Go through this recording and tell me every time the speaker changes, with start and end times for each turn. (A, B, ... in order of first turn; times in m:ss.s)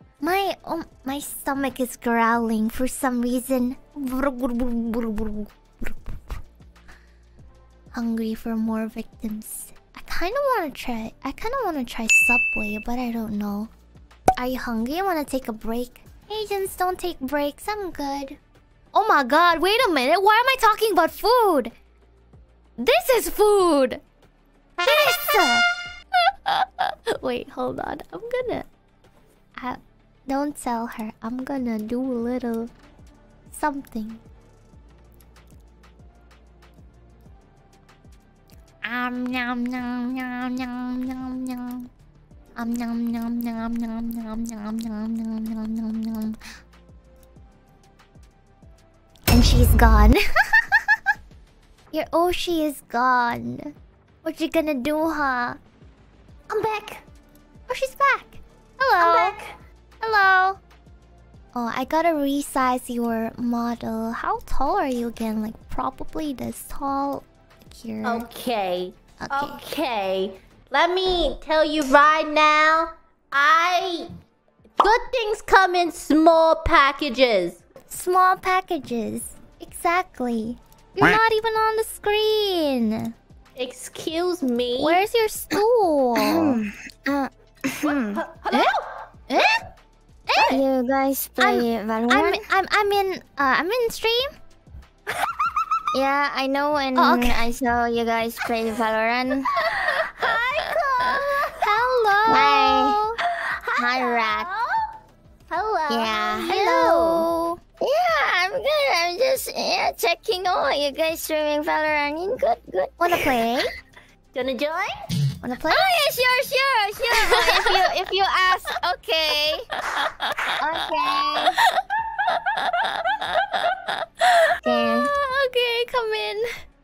0:00.2-0:06.4 A
0:07.9-0:13.7 A
0:14.4-0:18.4 A
0:18.9-0:21.7 A
0:22.8-0:24.0 A
0:24.8-0:25.6 A
0:26.4-0:28.7 A
0:29.6-0:32.7 A
0:33.5-0:34.2 A
0:38.8-0:41.9 A
0:42.6-0:46.4 A
0:49.3-0:51.0 A
0:51.9-0:55.6 A
0:56.5-0:57.0 B
0:57.7-0:59.4 A
0:59.0-0:59.5 B
1:00.0-1:00.6 A
1:01.5-1:08.3 A
1:08.0-1:14.1 B
1:09.2-1:09.6 A
1:14.8-1:17.6 B
1:17.9-1:23.1 A
1:23.6-1:25.0 B
1:24.8-1:26.6 A
1:26.1-1:28.2 C
1:27.8-1:29.5 B
1:28.5-1:28.8 A
1:29.3-1:29.6 A
1:30.3-1:30.6 A
1:30.4-1:32.4 C
1:31.4-1:34.3 A
1:35.2-1:35.6 B
1:35.9-1:39.6 C
1:37.0-1:37.5 A
1:39.6-1:41.7 B
1:41.6-1:43.2 A
1:42.3-1:43.0 C
1:43.3-1:44.9 B
1:43.7-1:44.5 C
1:45.5-1:47.3 B
1:45.9-1:46.5 C
1:46.2-1:47.6 A
1:47.8-1:53.2 C
1:53.0-1:53.7 A
1:54.3-1:55.1 B
1:55.4-1:55.9 A
1:55.7-1:59.7 C
1:57.1-1:57.9 A
2:00.0-2:00.5 A
2:00.6-2:01.6 C
2:02.6-2:06.4 A
2:04.6-2:05.1 C